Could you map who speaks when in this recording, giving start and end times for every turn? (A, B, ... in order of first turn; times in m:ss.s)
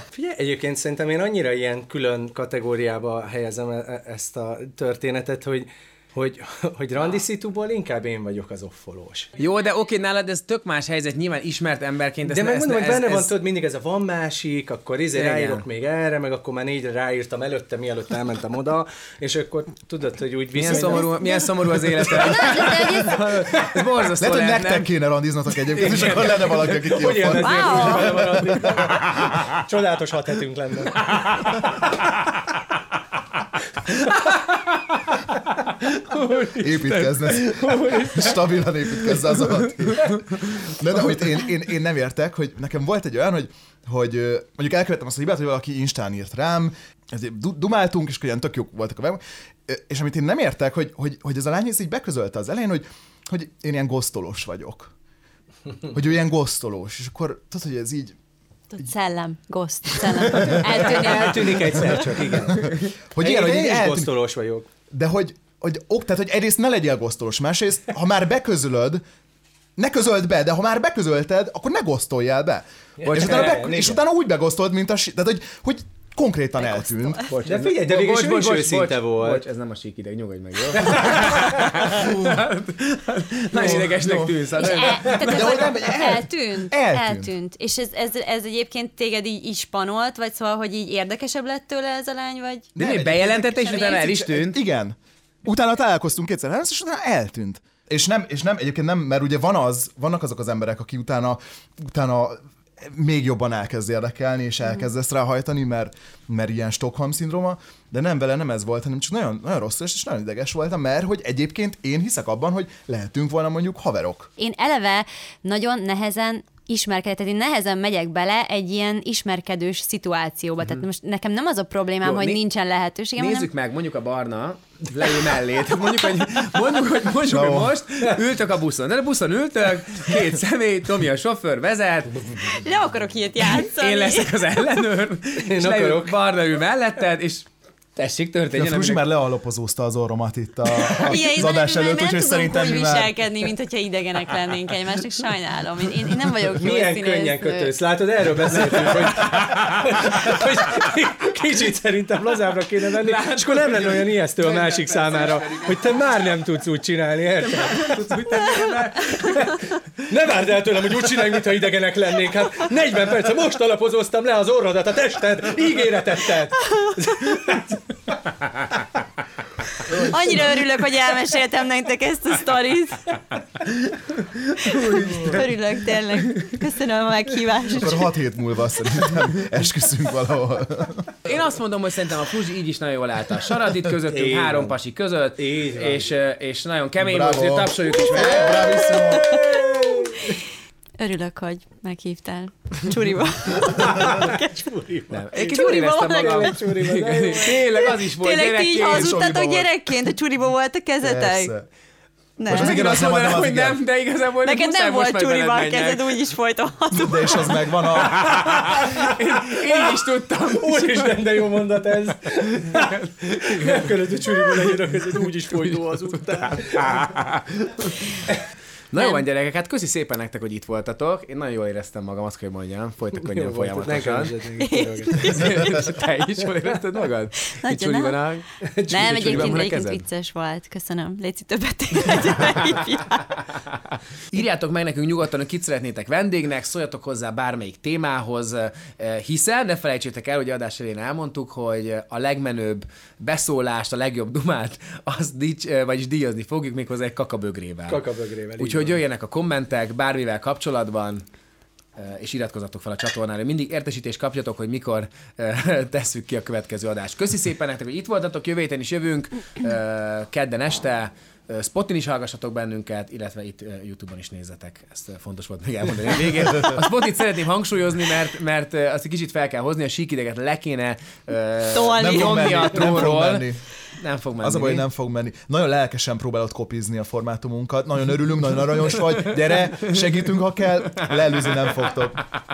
0:00.1-0:09.3 A
0:09.4-0:13.3 B
0:12.2-0:22.4 A
0:15.1-0:15.6 B
0:20.5-0:24.9 B
0:20.7-0:21.0 C
0:22.1-0:23.2 C
0:24.2-0:28.8 D
0:25.7-0:29.3 B
0:26.6-0:31.2 A
0:27.4-0:28.2 C
0:31.1-0:31.7 B
0:33.9-0:41.4 B
0:36.6-0:54.9 D
0:55.9-0:58.1 D
0:58.7-1:02.0 C
1:00.0-1:00.8 D
1:00.6-1:04.7 A
1:02.5-1:04.1 D
1:04.9-1:09.0 D
1:09.8-1:17.2 D
1:13.0-1:14.0 A
1:13.1-1:13.6 B
1:16.6-1:17.3 C
1:17.3-1:25.7 B
1:17.4-1:19.4 A
1:22.0-1:22.4 D
1:23.5-1:27.3 D
1:24.6-1:32.7 C
1:32.8-1:54.3 D
1:32.8-1:34.6 B
1:54.4-2:03.5 C
2:02.0-2:02.4 B
2:03.2-2:12.6 B
2:07.2-2:07.8 D
2:12.5-2:14.3 C
2:13.5-2:19.0 B
2:15.4-2:16.1 A
2:18.5-2:23.2 D
2:20.8-2:27.7 C
2:26.5-2:38.0 A
2:28.5-2:30.4 B
2:33.0-2:36.2 B
2:37.4-2:39.6 B
2:39.1-2:39.6 A
2:40.1-2:47.8 A
2:49.9-2:53.2 C
2:54.1-2:55.5 B
2:54.6-2:58.1 C
2:57.8-3:01.1 D
3:01.2-3:08.7 B
3:04.1-3:04.7 A
3:05.4-3:06.0 A
3:07.0-3:09.4 D
3:08.4-3:10.3 A
3:08.4-3:10.4 C
3:11.0-3:14.5 C
3:13.8-3:15.2 A
3:15.1-3:19.2 B
3:15.3-3:16.5 C
3:16.2-3:17.6 A
3:17.3-3:21.5 C
3:18.8-3:19.7 D
3:21.0-3:21.6 D
3:22.4-3:22.8 C
3:22.5-3:23.8 D
3:22.5-3:26.0 B
3:24.4-3:27.6 C
3:26.9-3:28.3 D
3:28.2-3:31.5 B
3:28.3-3:37.0 A
3:32.4-3:38.3 B
3:38.9-3:44.4 B
3:38.9-3:39.2 C
3:43.3-3:45.6 A
3:44.6-3:45.9 C
3:45.2-3:50.0 B
3:47.5-3:48.1 C
3:48.6-3:49.6 A
3:48.9-3:53.4 C
3:54.3-4:08.0 B
4:07.9-4:09.0 A
4:08.6-4:11.2 B
4:12.0-4:34.8 B
4:31.7-4:32.7 C
4:31.9-4:33.6 D
4:34.4-4:42.2 D
4:39.5-4:40.0 B
4:41.1-4:41.4 B